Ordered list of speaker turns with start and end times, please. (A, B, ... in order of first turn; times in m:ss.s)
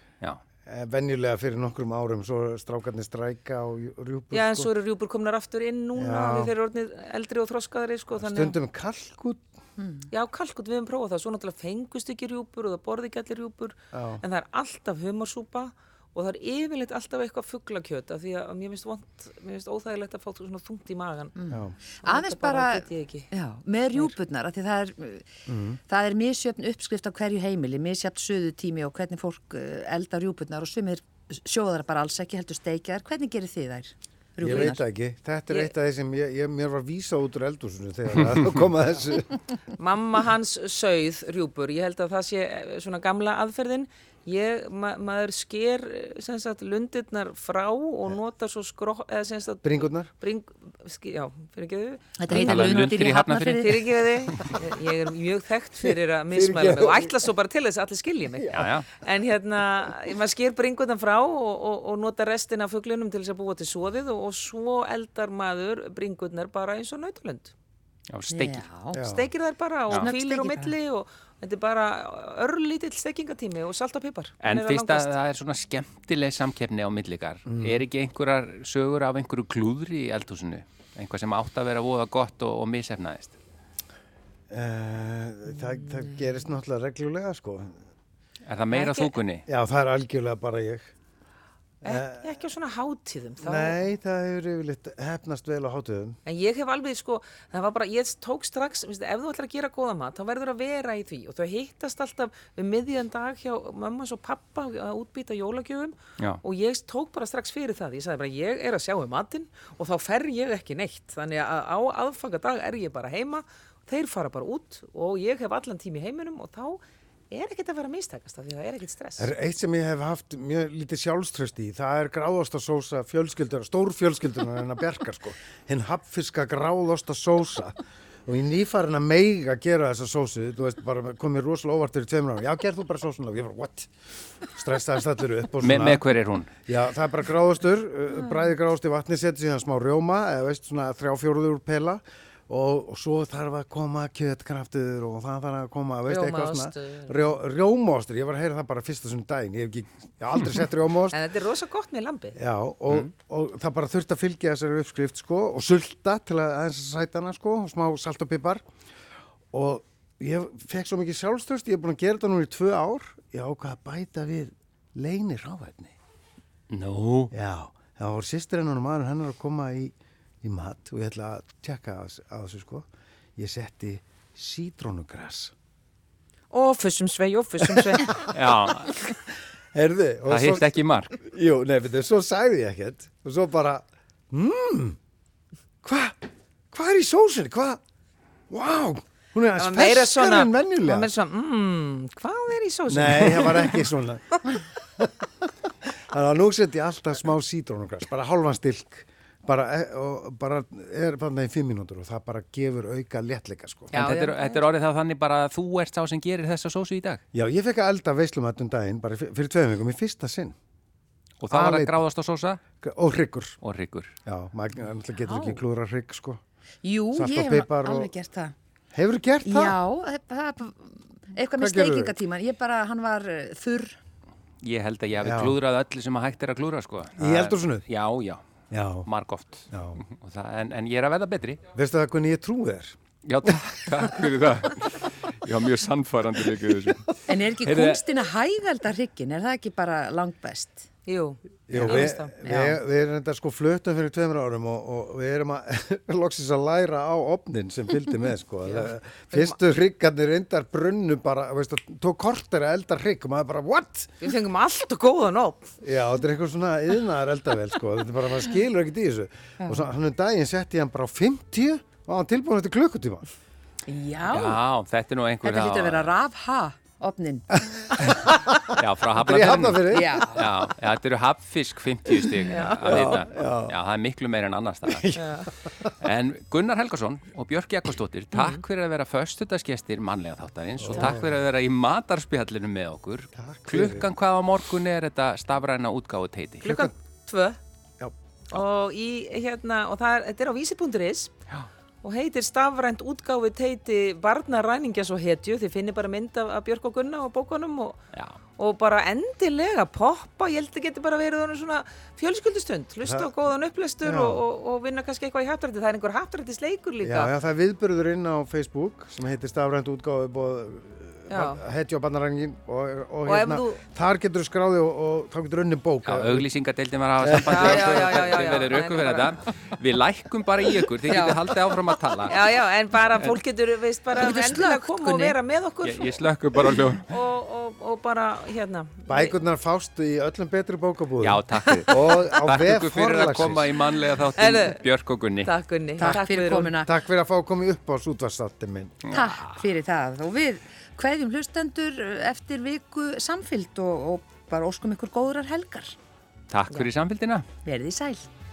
0:00.6-0:04.7 A
0:04.3-0:08.6 B
0:06.0-0:06.5 A
0:08.2-0:09.4 A
0:10.1-0:21.4 B
0:13.9-0:14.2 A
0:21.4-0:25.2 C
0:22.0-0:23.3 B
0:25.5-0:25.8 A
0:25.9-0:34.8 C
0:34.4-0:39.4 A
0:39.7-1:07.5 B
0:49.6-0:50.1 A
0:52.2-0:53.8 C
0:52.3-0:54.6 D
0:56.3-0:57.2 A
0:58.5-0:59.0 D
1:08.1-1:08.7 D
1:08.3-1:09.0 C
1:08.9-1:09.3 A
1:08.9-1:15.1 B
1:09.9-1:10.7 C
1:14.4-1:23.4 D
1:17.4-1:17.8 A
1:24.5-1:27.8 A
1:28.4-1:29.4 D
1:28.7-1:29.2 B
1:29.5-1:30.9 A
1:31.8-1:32.3 A
1:31.8-1:33.8 B
1:33.4-1:36.2 A
1:36.2-1:59.3 B
1:59.2-2:13.9 A
2:14.5-2:16.0 A
2:15.6-2:16.5 D
2:16.6-2:31.2 A
2:26.1-2:27.3 B
2:31.1-2:32.4 B
2:32.4-2:38.6 A
2:39.5-2:45.9 A
2:46.7-2:47.3 D
2:47.3-2:52.8 A
2:53.4-2:55.5 A
2:56.5-2:58.2 B
2:58.2-2:59.1 D
2:59.7-3:05.0 A
3:00.3-3:01.2 D
3:05.8-3:06.2 A
3:06.7-3:07.8 A
3:08.5-3:11.1 A
3:09.6-3:13.9 B
3:12.9-3:24.0 A
3:23.9-3:24.5 B
3:23.9-3:27.2 D
3:27.3-3:30.5 A
3:31.4-3:32.6 D
3:31.5-3:32.0 A
3:32.8-3:33.6 A
3:33.6-3:34.1 D
3:34.2-3:36.4 A
3:35.2-3:35.6 C
3:36.8-3:38.5 C
3:37.1-3:38.1 A
3:38.9-3:39.8 A
3:39.4-3:44.0 C
3:41.6-3:42.2 A
3:44.6-3:48.4 D
3:45.2-3:45.6 A
3:47.2-3:47.8 A
3:48.7-3:49.1 A
3:49.0-3:51.6 D
3:49.7-3:50.0 A
3:51.7-3:53.0 A
3:53.2-3:58.0 D
3:57.3-4:00.8 C
4:01.1-4:02.4 B
4:01.7-4:14.2 A
4:02.4-4:02.8 C
4:08.6-4:09.5 B
4:14.2-4:15.7 B
4:15.8-4:23.3 A
4:23.9-4:24.6 C
4:24.3-4:26.1 D
4:25.4-4:27.6 C
4:28.0-4:30.2 A
4:28.7-4:35.1 D
4:29.9-4:30.5 C
4:32.5-4:33.2 B
4:32.8-4:33.8 A
4:34.9-4:35.2 A
4:35.1-4:35.6 B
4:36.0-4:46.7 D
4:38.3-4:38.6 B
4:40.8-4:41.3 A
4:43.4-4:44.0 A
4:46.6-4:47.6 B
4:46.7-4:46.9 A
4:48.5-4:51.3 B
4:52.0-4:58.0 B
4:58.1-4:58.4 D
4:58.5-5:07.3 B
5:03.0-5:03.3 A
5:04.0-5:04.4 A
5:07.0-5:16.4 A
5:11.3-5:11.6 B
5:13.2-5:13.8 B
5:16.0-5:22.5 D
5:17.2-5:17.6 A
5:17.4-5:19.3 B
5:21.1-5:21.4 C
5:22.2-5:26.2 B
5:24.2-5:25.4 C
5:25.8-5:27.1 D
5:27.1-5:29.3 B
5:29.1-5:33.7 A
5:31.2-5:35.5 D
5:34.4-5:34.8 B
5:35.4-5:36.7 B
5:36.0-5:36.9 C
5:36.8-5:39.0 A
5:39.0-5:39.6 D
5:39.1-5:45.9 C
5:46.5-5:47.4 D
5:47.6-5:48.3 C